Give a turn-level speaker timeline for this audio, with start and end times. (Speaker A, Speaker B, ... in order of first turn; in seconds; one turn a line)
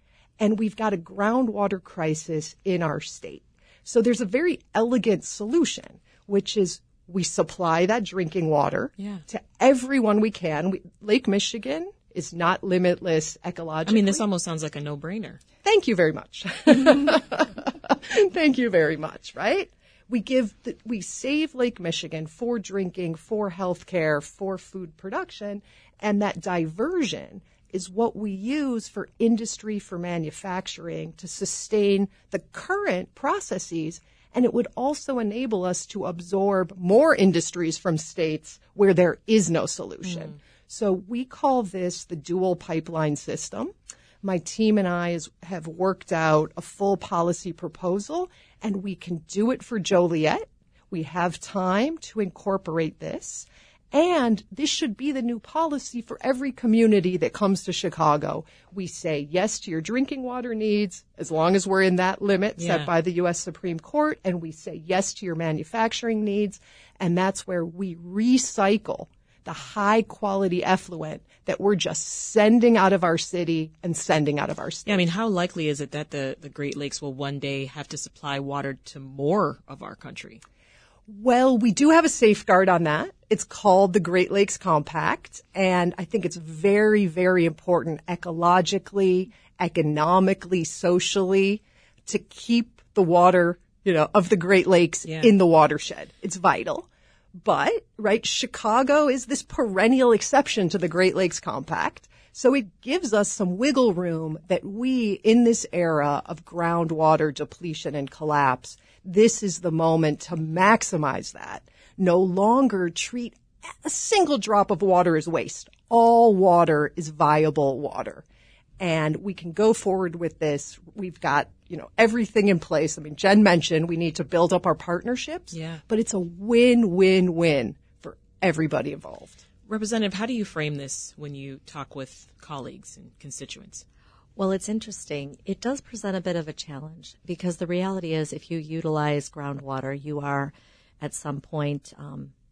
Speaker A: 0.4-14.2
Speaker B: 9.0-9.2
Speaker B: 13.9-15.4
Speaker A: 15.6-75.1
Speaker B: 62.6-62.9
Speaker B: 74.9-80.4
Speaker A: 81.1-118.2
Speaker B: 95.1-95.3
Speaker A: 118.8-129.4
Speaker B: 125.5-125.8
Speaker B: 129.7-133.8
Speaker C: 134.4-142.3